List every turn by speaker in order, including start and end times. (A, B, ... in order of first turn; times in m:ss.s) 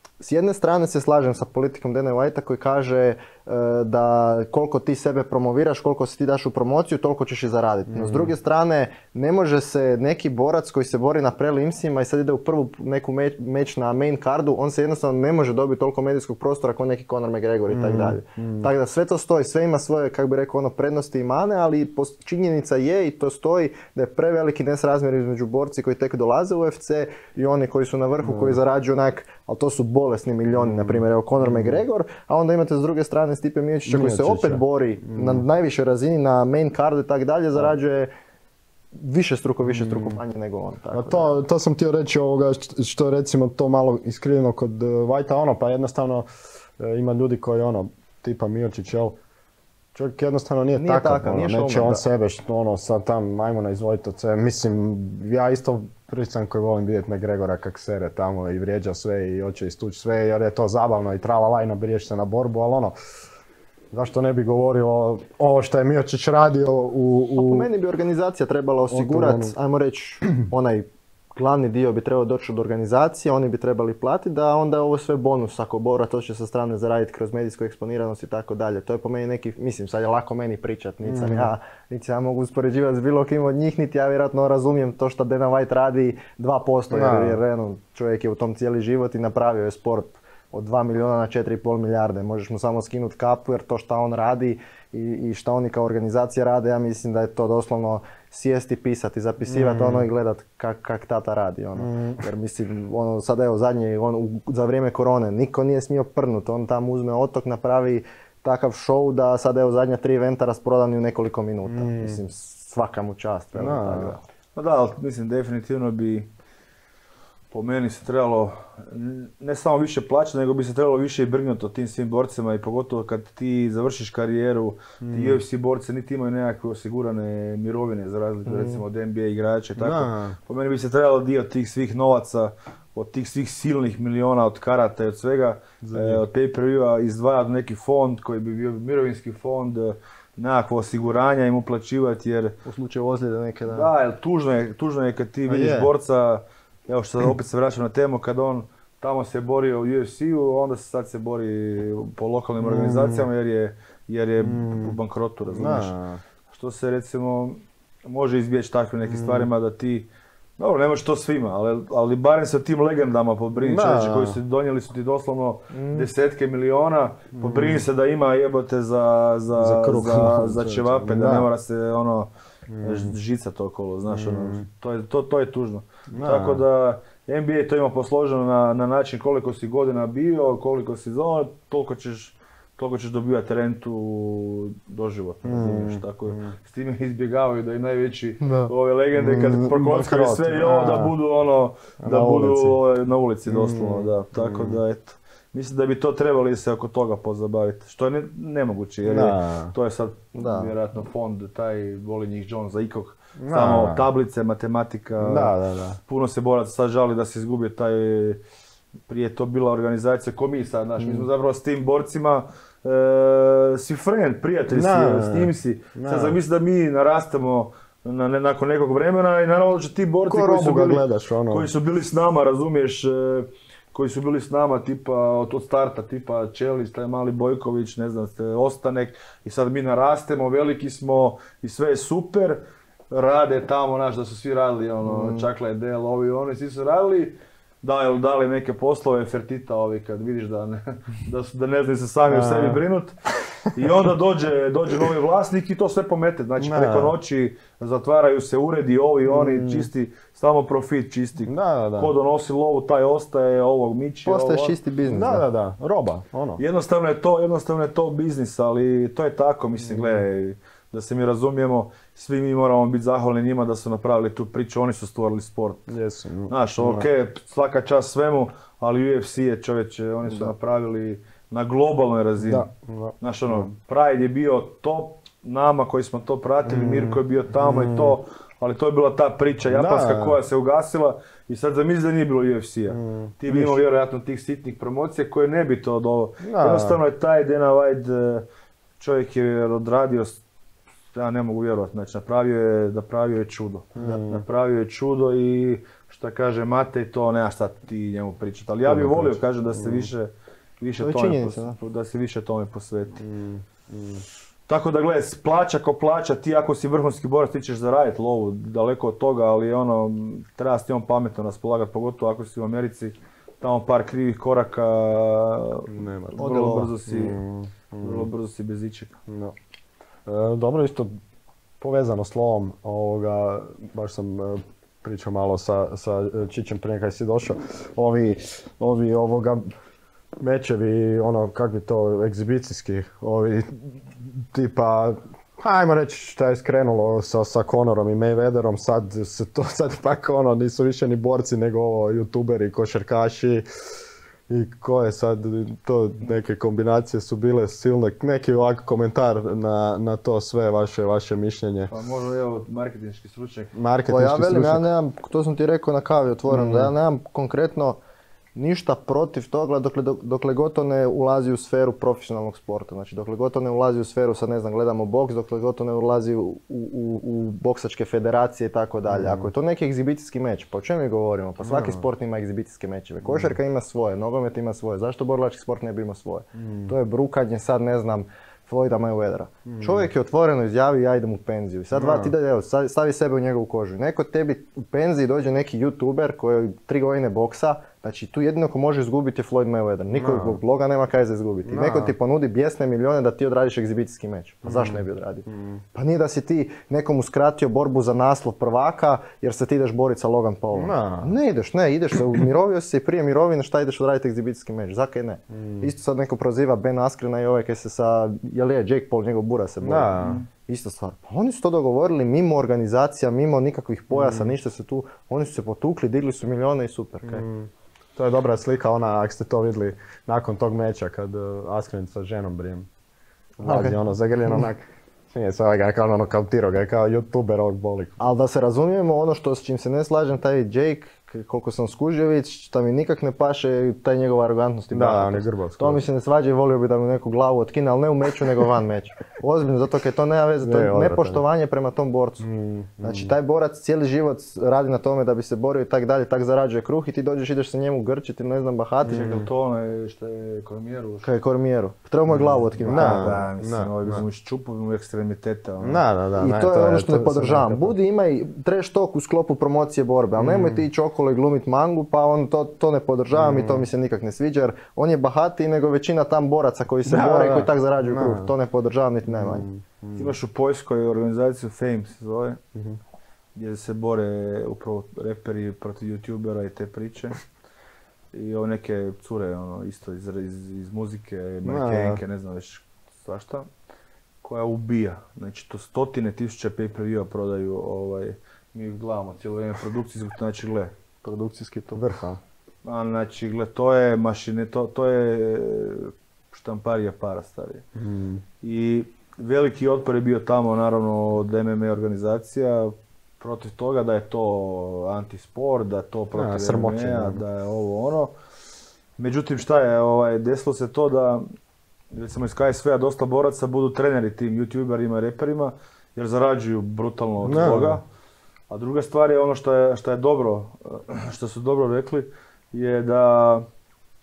0:00.2-0:38.1 A
0:07.9-0:08.3 B
0:17.7-0:18.7 B
0:28.2-0:28.6 B
0:30.5-0:31.8 B
0:33.8-0:35.4 B
0:38.9-0:41.3 A
0:39.6-0:40.2 B
0:40.9-0:46.3 B
0:46.8-0:49.2 B
0:50.0-1:03.0 B
0:50.8-0:52.0 A
1:03.9-1:07.7 B
1:07.4-1:54.2 A
1:08.9-1:09.5 B
1:21.0-1:21.5 B
1:26.9-1:27.4 B
1:39.4-1:40.1 B
1:41.8-1:42.2 B
1:51.6-1:52.2 B
1:53.6-1:54.2 B
1:54.6-1:56.3 C
1:57.5-2:22.6 C
2:05.0-2:05.4 B
2:08.5-2:08.8 A
2:09.8-2:10.4 B
2:15.8-2:16.2 B
2:22.6-2:23.9 A
2:23.7-2:35.9 C
2:25.5-2:25.9 B
2:32.6-2:33.3 B
2:34.4-2:35.0 B
2:35.5-2:36.2 B
2:36.5-2:52.3 C
2:39.1-2:39.5 B
2:43.6-2:44.4 B
2:45.7-2:46.1 A
2:47.3-2:47.9 B
2:49.6-2:51.5 B
2:52.7-2:53.1 B
2:52.8-3:25.5 C
2:54.1-2:54.7 B
2:56.1-2:56.6 B
3:05.4-3:06.6 B
3:08.4-3:08.7 A
3:09.2-3:11.1 B
3:12.0-3:12.8 B
3:13.5-3:14.8 B
3:19.0-3:19.8 B
3:20.4-3:20.7 A
3:23.4-3:24.1 B
3:25.2-3:26.0 B
3:26.1-3:28.4 C
3:29.1-4:03.2 C
3:34.7-3:36.4 B
3:40.3-3:41.7 B
3:55.1-3:55.5 A
4:02.3-4:02.8 B
4:03.7-4:14.8 C
4:06.6-4:07.2 B
4:09.3-4:09.9 B
4:11.5-4:12.1 B
4:14.2-4:15.4 A
4:15.0-4:16.6 B
4:16.6-4:25.9 C
4:19.8-4:20.2 B
4:25.9-4:27.1 B
4:26.5-4:32.7 C
4:32.4-4:33.7 B
4:33.2-4:48.4 C
4:36.6-4:38.2 B
4:39.7-4:40.4 B
4:42.9-4:43.8 B
4:46.4-4:47.0 B
4:49.0-4:50.4 C
4:51.1-5:03.2 C
4:54.0-4:54.4 B
4:58.9-5:00.1 B
5:01.0-5:01.8 A
5:03.2-5:04.2 B
5:04.7-5:17.4 C
5:15.9-5:16.4 B
5:16.4-5:16.9 A
5:17.1-5:18.3 B
5:18.0-5:19.1 C
5:19.3-5:19.6 B
5:20.3-5:21.1 B
5:21.8-5:29.6 B
5:30.4-5:43.6 B
5:44.5-5:51.9 B
5:51.9-5:53.7 C
5:53.8-5:54.9 B
5:54.1-5:58.0 A
5:56.5-5:56.9 B
5:58.6-6:57.4 A
6:09.0-6:09.5 B
6:11.6-6:12.0 B
6:13.2-6:13.6 B
6:16.6-6:16.9 B
6:19.7-6:20.1 B
6:21.9-6:22.3 B
6:30.1-6:30.6 B
6:31.7-6:32.1 B
6:34.6-6:35.8 B
6:40.7-6:41.4 B
6:45.5-6:45.9 B
6:49.8-6:50.4 B
6:54.1-6:54.5 B
6:57.2-7:02.9 B
7:03.6-7:08.2 B
7:03.6-7:04.0 A
7:08.2-7:22.5 A
7:14.9-7:16.0 B
7:20.6-7:21.4 B
7:22.4-7:23.3 B
7:23.0-7:29.3 A
7:29.0-7:29.5 B
7:29.1-7:31.3 C
7:31.2-7:33.4 A
7:32.3-7:34.2 B
7:32.8-7:36.0 C
7:35.8-7:38.0 B
7:36.4-7:49.7 A
7:40.4-7:40.9 B
7:43.3-7:43.9 B
7:47.1-7:48.5 B
7:49.3-7:50.4 B
7:50.2-7:52.6 C
7:53.6-7:57.4 C
7:58.3-8:03.7 C
8:01.6-8:02.2 B
8:04.4-8:10.9 C
8:11.2-8:12.0 A
8:11.9-8:12.4 B
8:12.8-8:17.8 C
8:18.0-8:18.4 B
8:18.6-8:28.3 C
8:26.3-8:27.4 B
8:29.2-8:31.4 C
8:32.1-8:38.0 C
8:37.4-8:38.0 B
8:38.7-8:43.7 C